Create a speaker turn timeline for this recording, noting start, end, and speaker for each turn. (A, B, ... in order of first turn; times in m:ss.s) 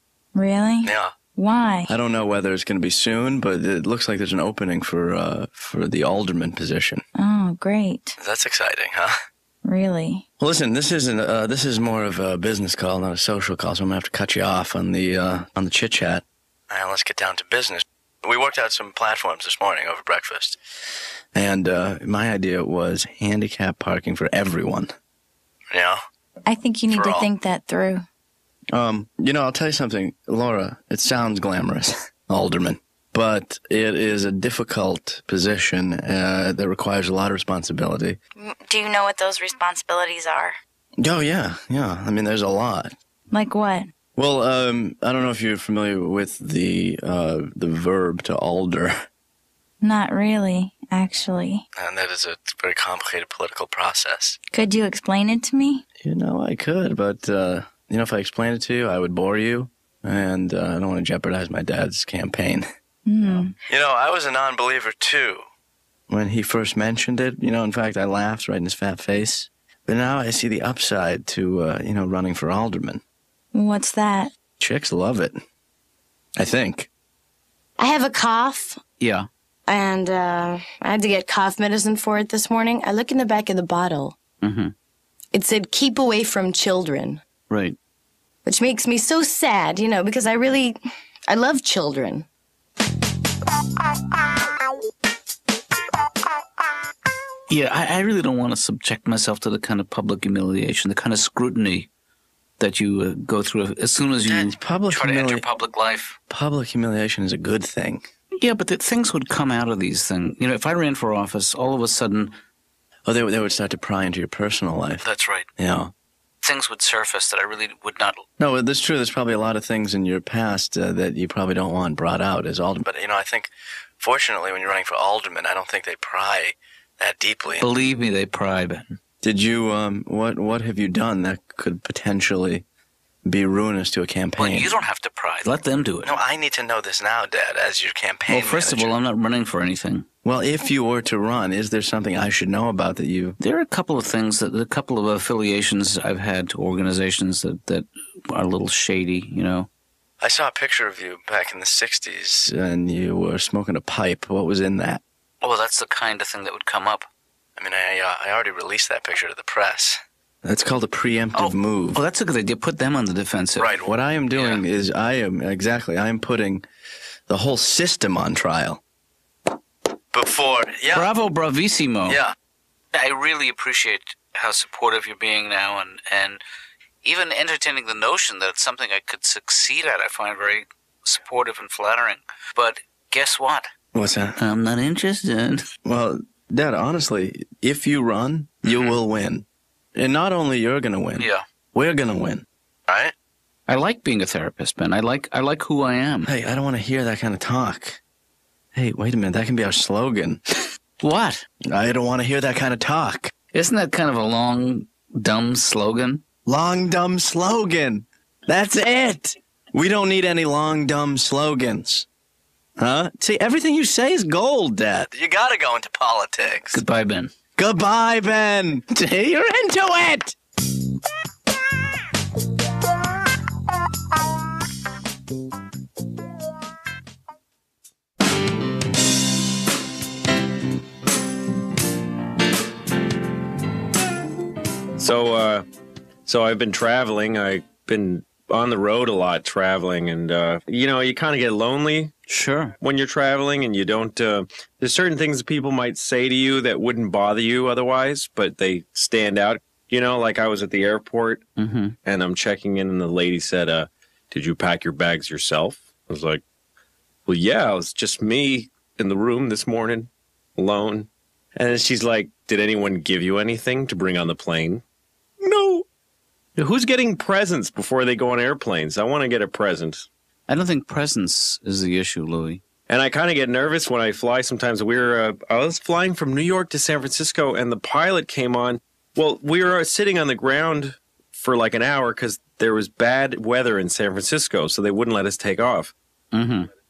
0:00.3-0:01.9 A
0:00.8-0:01.1 B
0:01.9-0:07.0 B
0:07.1-0:08.2 A
0:08.2-0:09.1 B
0:09.6-0:10.2 A
0:10.4-0:20.6 B
0:21.3-0:24.9 B
0:25.7-0:26.0 B
0:26.4-0:28.0 A
0:26.9-0:27.3 B
0:28.7-0:38.2 B
0:38.4-0:40.5 A
0:41.0-0:42.9 B
0:43.3-0:43.9 A
0:44.2-0:49.0 B
0:49.8-0:51.6 A
0:51.8-0:54.4 B
0:54.5-0:55.8 A
0:56.0-1:02.6 B
1:03.1-1:03.6 A
1:03.6-1:05.4 B
1:06.1-1:13.0 B
1:13.5-1:14.3 A
1:14.6-1:15.4 B
1:16.4-1:16.9 B
1:17.8-1:18.8 C
1:19.0-1:19.3 D
1:19.7-1:24.2 C
1:24.4-1:24.7 D
1:25.3-1:27.2 C
1:27.5-1:27.8 D
1:28.4-1:32.2 C
1:37.5-1:41.9 D
1:42.6-1:46.2 D
1:44.3-1:45.5 B
1:46.3-1:48.0 B
1:48.4-1:52.3 D
1:53.0-1:55.0 B
1:55.0-1:55.5 D
1:55.6-1:55.9 B
1:56.4-1:58.2 D
1:58.4-2:07.7 B
2:07.6-2:09.0 D
2:09.2-2:12.6 B
2:13.3-2:14.7 B
2:14.4-2:16.1 D
2:16.0-2:18.9 B
2:18.3-2:20.0 D
2:20.2-2:23.4 B
2:23.4-2:29.7 D
2:30.2-2:35.0 B
2:35.4-2:37.1 D
2:37.6-2:42.0 B
2:41.3-2:43.7 D
2:43.6-2:46.6 B
2:44.3-2:44.6 D
2:47.3-2:48.8 B
2:50.1-2:51.1 B
2:50.9-2:52.2 D
2:52.0-2:52.3 B
2:52.9-2:56.4 D
2:57.0-3:03.7 D
3:03.9-3:04.4 B
3:04.4-3:05.6 D
3:05.8-3:13.1 B
3:08.7-3:09.0 D
3:11.2-3:11.4 D
3:13.7-3:16.3 D
3:16.2-3:18.0 B
3:18.7-3:20.4 B
3:21.0-3:21.4 D
3:21.7-3:23.3 B
3:23.5-3:26.2 D
3:26.4-3:32.1 B
3:32.8-3:36.8 B
3:36.7-3:37.3 D
3:37.6-3:40.4 B
3:55.0-3:55.6 E
3:56.3-4:02.1 E
4:02.3-4:02.8 D
4:02.8-4:11.4 E
4:11.6-4:12.0 D
4:12.0-4:16.4 E
4:17.3-4:24.8 E
4:25.4-4:25.8 E
4:26.6-4:30.1 E
4:30.5-4:32.6 D
4:32.9-4:45.9 E
4:46.3-4:46.7 D